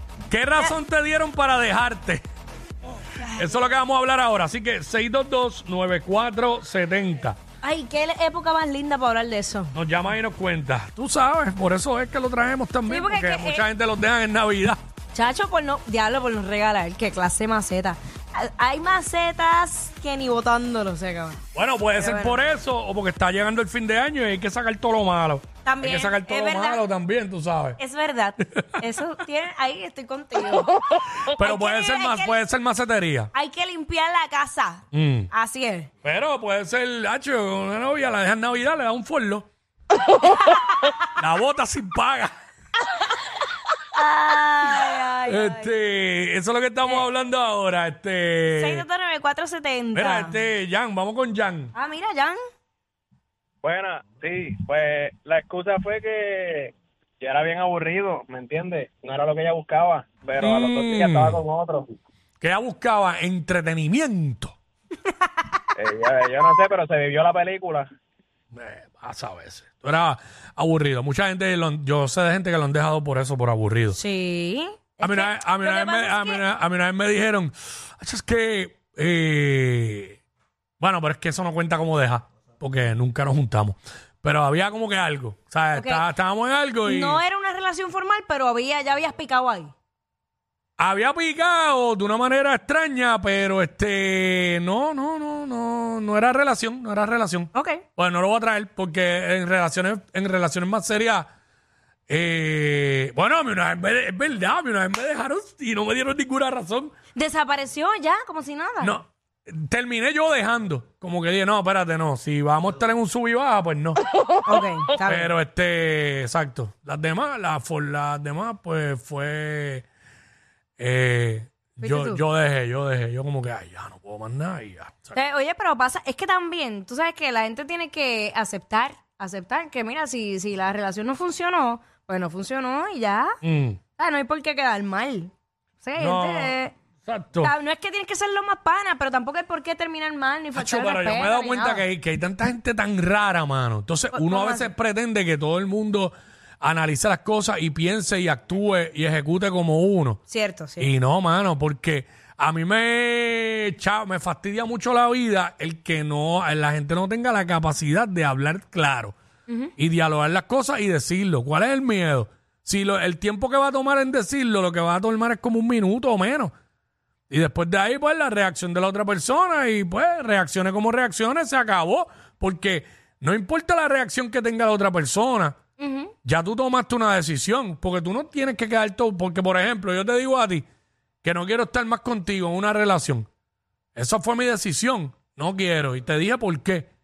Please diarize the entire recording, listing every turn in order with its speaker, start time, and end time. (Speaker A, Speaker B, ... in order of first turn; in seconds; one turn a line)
Speaker A: 0.3-2.2
Speaker B: 3.1-3.6
Speaker A: 3.3-7.4
Speaker B: 7.6-9.7
Speaker A: 9.7-14.8
Speaker B: 12.9-13.7
Speaker B: 15.1-21.4
Speaker A: 21.5-27.8
Speaker B: 22.0-22.4
Speaker B: 25.6-26.8
Speaker B: 27.8-30.7
Speaker A: 28.5-28.8
Speaker A: 31.3-33.3
Speaker B: 31.4-32.4
Speaker B: 33.3-35.9
Speaker A: 34.9-35.3
Speaker A: 36.0-39.5
Speaker A: 41.2-42.3
Speaker B: 43.9-45.7
Speaker A: 45.3-48.8
Speaker B: 48.5-50.4
Speaker A: 49.9-51.7
Speaker B: 51.7-52.4
Speaker C: 53.6-61.9
Speaker A: 60.4-61.4
Speaker A: 62.4-64.5
Speaker C: 65.8-67.9
Speaker A: 68.5-74.0
Speaker B: 73.9-76.4
Speaker A: 75.0-80.2
Speaker A: 80.8-87.2
Speaker B: 85.7-86.0
Speaker B: 86.8-89.7
Speaker A: 90.8-101.2
Speaker B: 97.5-97.8
Speaker A: 102.1-106.9
Speaker B: 107.1-109.0
Speaker A: 108.8-114.0
Speaker B: 114.5-115.3
Speaker A: 115.0-119.8
Speaker A: 120.8-125.2
Speaker B: 121.8-122.2
Speaker B: 125.1-133.4
Speaker A: 133.4-133.8
Speaker B: 134.0-136.8
Speaker A: 136.0-137.5
Speaker B: 137.4-141.8
Speaker A: 140.5-150.2
Speaker B: 144.1-144.7
Speaker B: 150.3-150.9
Speaker A: 150.8-159.1
Speaker A: 159.8-166.5
Speaker A: 167.3-175.6
Speaker B: 175.8-176.1
Speaker A: 176.2-180.6
Speaker A: 181.2-183.3
Speaker A: 183.9-186.9